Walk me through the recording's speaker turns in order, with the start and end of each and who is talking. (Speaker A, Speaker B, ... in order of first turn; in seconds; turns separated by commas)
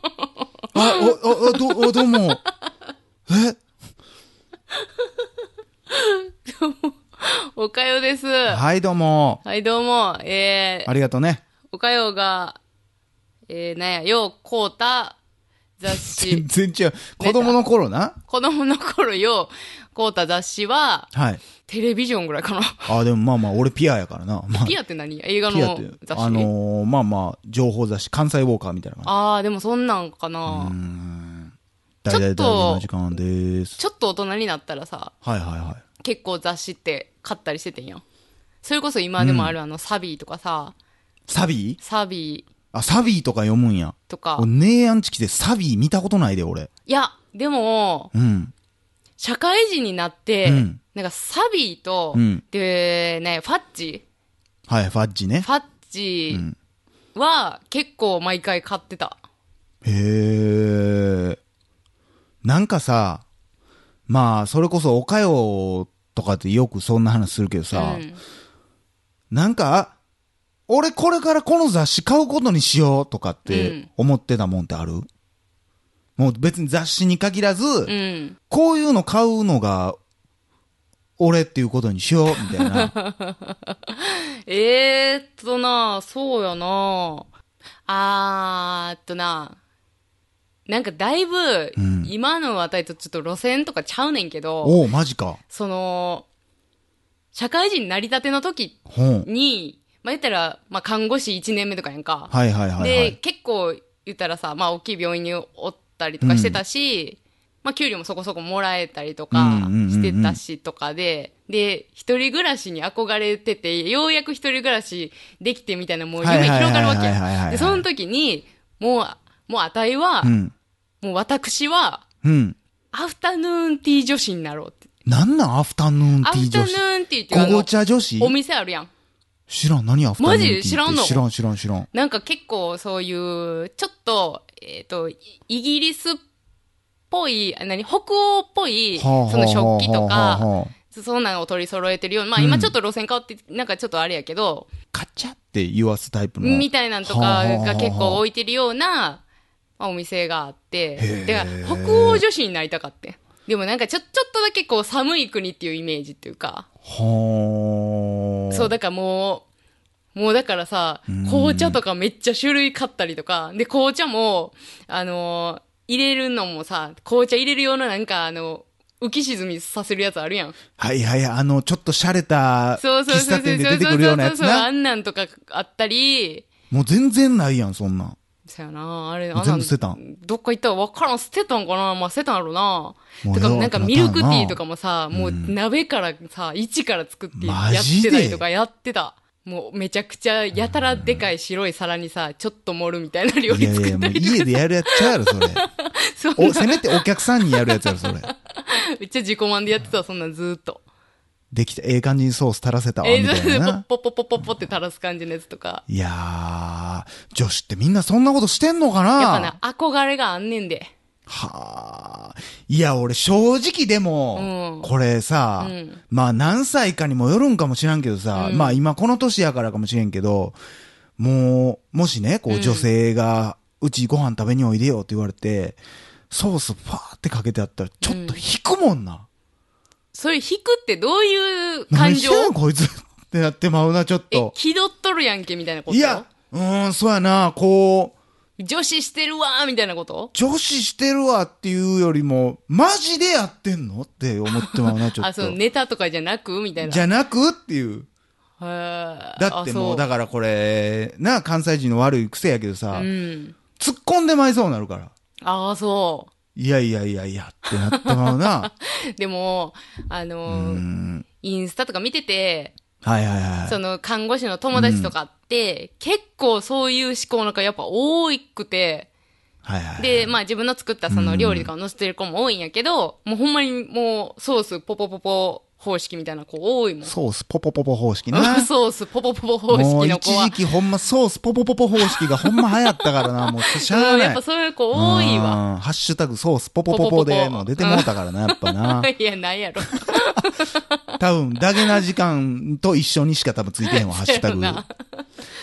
Speaker A: 0.2-2.3, Speaker B: 0.7-2.4, Speaker B: 3.3-3.6, Speaker A: 5.9-8.6, Speaker B: 8.5-9.4, Speaker A: 9.4-10.9, Speaker B: 10.8-11.4, Speaker A: 11.7-12.6, Speaker A: 13.5-15.2, Speaker A: 15.8-16.4, Speaker B: 15.9-18.2, Speaker A: 17.2-17.6, Speaker A: 18.3-21.1, Speaker B: 21.1-21.4, Speaker A: 21.6-23.0, Speaker B: 22.9-24.8, Speaker A: 24.6-26.5, Speaker B: 25.5-29.1, Speaker A: 29.0-30.7, Speaker B: 30.4-33.8, Speaker A: 32.1-32.9, Speaker A: 33.8-35.1, Speaker B: 35.2-35.8, Speaker A: 36.0-38.0, Speaker A: 38.6-40.7, Speaker B: 39.2-39.5, Speaker B: 41.3-41.8, Speaker A: 41.8-42.5, Speaker B: 42.7-46.7, Speaker A: 44.1-44.5, Speaker A: 46.9-48.1, Speaker B: 48.1-48.5, Speaker A: 49.2-54.0, Speaker B: 50.4-50.8, Speaker B: 52.1-52.4, Speaker B: 54.7-55.5, Speaker A: 55.4-56.4, Speaker A: 57.1-59.2, Speaker B: 59.8-61.4, Speaker B: 62.4-63.2, Speaker B: 64.1-68.0, Speaker A: 67.7-68.2, Speaker B: 69.3-70.0, Speaker B: 70.7-75.1, Speaker A: 73.5-73.9, Speaker B: 76.2-77.9, Speaker A: 77.9-78.4, Speaker B: 78.5-80.0, Speaker B: 81.2-82.9, Speaker A: 82.4-87.3, Speaker A: 87.9-89.6, Speaker A: 90.7-94.8, Speaker B: 91.8-92.1, Speaker B: 94.6-95.4, Speaker A: 95.5-96.2, Speaker A: 97.3-120.3, Speaker B: 98.9-99.3, Speaker B: 102.3-103.2, Speaker B: 106.2-106.6, Speaker B: 109.3-110.4, Speaker B: 116.2-117.8, Speaker B: 120.2-120.5, Speaker A: 121.0-122.0, Speaker B: 122.2-122.6, Speaker A: 122.9-124.8, Speaker B: 125.0-128.3, Speaker A: 126.2-128.9, Speaker B: 129.5-131.9, Speaker A: 130.2-131.2, Speaker A: 131.9-136.2, Speaker A: 137.1-144.7, Speaker B: 138.9-140.7, Speaker B: 142.3-142.7, Speaker B: 144.9-148.2, Speaker A: 146.4-149.2, Speaker A: 149.8-156.7, Speaker B: 151.0-152.2, Speaker B: 156.8-158.7, Speaker A: 158.5-159.4, Speaker A: 160.1-170.6, Speaker B: 161.1-161.8, Speaker B: 170.8-174.7, Speaker A: 172.8-176.5, Speaker B: 176.7-178.2, Speaker A: 178.4-200.8, Speaker B: 179.3-180.0, Speaker B: 183.2-184.6, Speaker B: 185.1-185.5, Speaker B: 187.3-188.4, Speaker B: 190.5-191.3, Speaker B: 193.5-195.6, Speaker B: 196.4-198.3, Speaker B: 201.5-203.8, Speaker A: 203.0-205.8, Speaker B: 205.9-209.5, Speaker A: 209.2-210.9, Speaker B: 211.3-220.6, Speaker A: 214.3-214.9, Speaker A: 215.6-216.0, Speaker A: 218.3-218.8, Speaker B: 221.2-225.8, Speaker A: 222.5-222.8, Speaker B: 226.3-229.2, Speaker A: 228.0-228.4, Speaker A: 230.1-232.5, Speaker B: 231.9-234.5, Speaker A: 234.3-236.3, Speaker B: 235.9-238.1, Speaker A: 238.6-240.3, Speaker B: 240.3-245.6, Speaker A: 244.5-247.1, Speaker B: 246.8-248.1, Speaker A: 248.6-250.0, Speaker B: 249.4-253.1, Speaker A: 252.9-253.6, Speaker B: 253.8-255.1, Speaker A: 255.4-256.3, Speaker B: 256.5-258.7, Speaker A: 257.7-260.8, Speaker B: 260.4-261.2, Speaker A: 261.4-262.8, Speaker B: 263.0-263.8, Speaker A: 263.7-269.1, Speaker B: 264.7-265.1, Speaker B: 269.6-270.4, Speaker A: 270.0-277.1, Speaker B: 271.1-271.7, Speaker B: 277.1-278.7, Speaker A: 278.3-280.6, Speaker B: 279.7-284.4, Speaker A: 282.0-285.6, Speaker B: 284.9-289.1, Speaker A: 286.9-291.0, Speaker B: 291.2-294.8, Speaker A: 293.8-295.2